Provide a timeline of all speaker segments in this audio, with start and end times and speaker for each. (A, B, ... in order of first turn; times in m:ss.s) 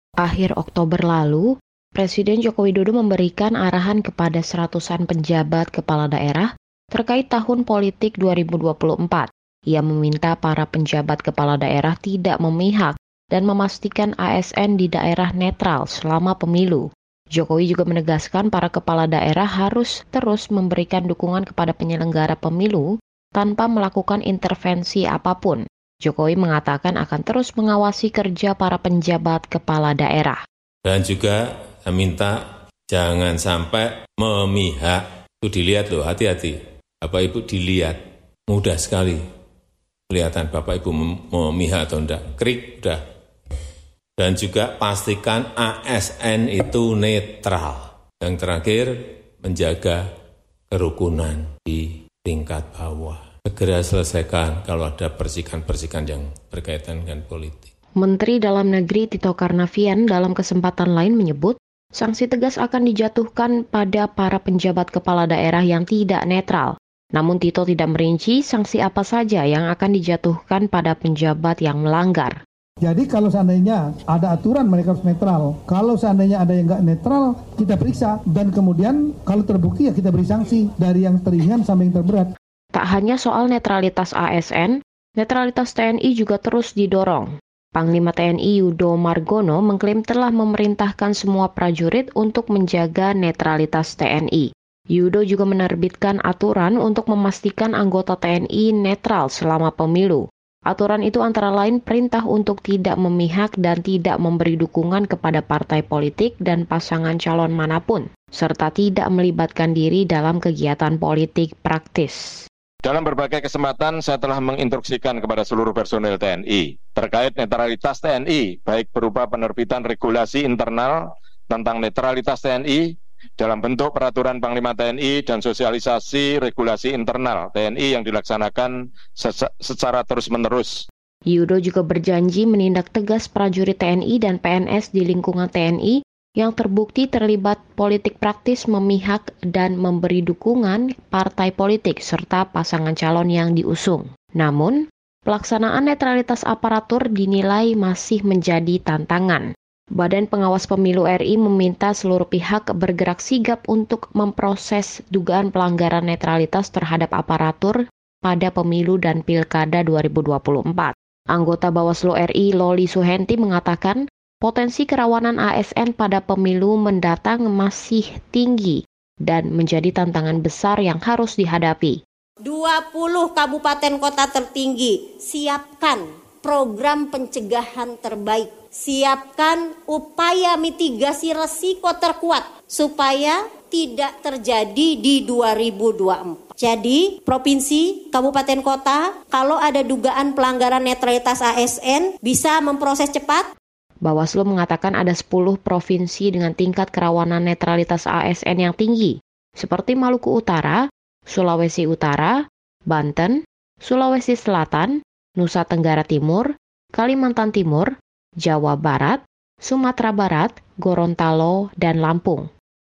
0:00.2-0:30.4 A
0:30.8-0:39.2 B
0:40.1-0:43.0 B
0:44.2-0:50.0 B
0:50.7-0:57.7 B
0:58.0-1:12.4 A
1:12.8-1:22.3 C
1:22.8-1:52.4 A
1:52.8-2:10.8 D
2:11.3-2:29.4 A
2:30.0-2:52.0 A
2:52.4-3:13.5 E
3:14.0-3:22.4 A
3:22.9-3:27.9 A
3:28.4-3:32.5 A